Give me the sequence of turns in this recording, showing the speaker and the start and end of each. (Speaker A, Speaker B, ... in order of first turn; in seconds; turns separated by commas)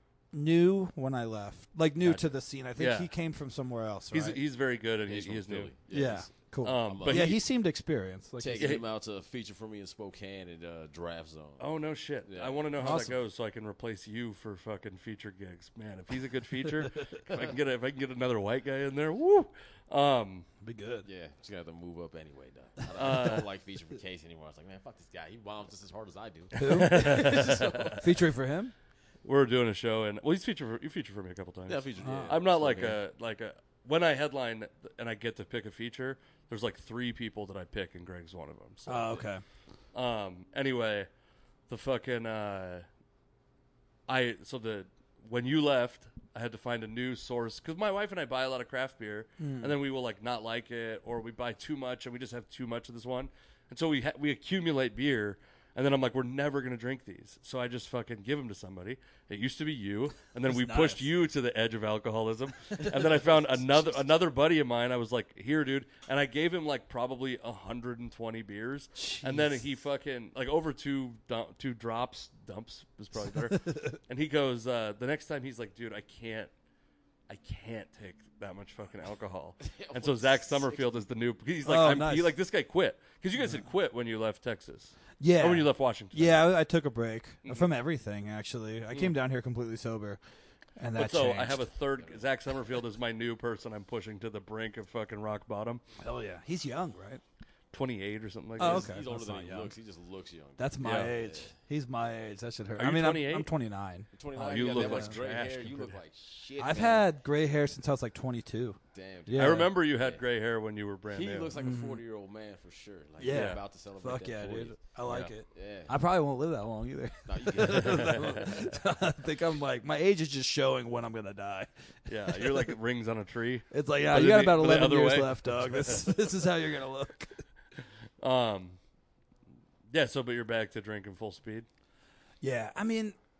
Speaker A: 0.3-4.4, Speaker B: 2.0-3.1, Speaker B: 4.1-5.7, Speaker C: 5.1-6.3, Speaker A: 5.9-8.8, Speaker B: 6.6-7.4, Speaker C: 6.8-7.4, Speaker C: 8.4-11.7, Speaker B: 11.6-20.5, Speaker C: 12.2-12.7, Speaker A: 12.8-13.2, Speaker A: 20.6-21.1, Speaker C: 21.1-28.0, Speaker B: 23.0-23.5, Speaker A: 26.6-28.7, Speaker B: 26.6-28.0, Speaker B: 29.2-39.2, Speaker C: 31.7-33.0, Speaker A: 32.0-32.4, Speaker A: 38.9-39.4, Speaker B: 39.9-41.1, Speaker B: 41.7-42.9, Speaker B: 44.1-76.5, Speaker A: 49.4-49.7, Speaker A: 60.5-61.1, Speaker A: 62.7-63.8, Speaker A: 69.0-69.6, Speaker A: 73.3-74.0, Speaker B: 77.3-86.5, Speaker C: 79.6-81.0, Speaker A: 81.7-82.3, Speaker A: 85.2-90.2, Speaker A: 90.8-91.7, Speaker B: 91.0-95.8, Speaker C: 92.0-92.8, Speaker A: 96.0-97.2, Speaker B: 97.7-98.9, Speaker A: 98.6-99.7, Speaker C: 98.6-101.5, Speaker A: 100.6-105.2, Speaker B: 100.8-101.1, Speaker B: 102.8-103.5, Speaker C: 104.1-107.1, Speaker B: 104.3-106.0, Speaker A: 106.6-109.7, Speaker C: 108.9-110.2, Speaker B: 109.3-111.5, Speaker C: 111.1-116.0, Speaker A: 111.5-112.0, Speaker A: 113.2-122.8, Speaker B: 113.3-113.6, Speaker C: 117.3-118.7, Speaker B: 117.7-118.6, Speaker B: 122.1-126.1, Speaker A: 123.7-127.4, Speaker B: 128.2-128.8, Speaker B: 129.9-131.7, Speaker A: 132.4-133.2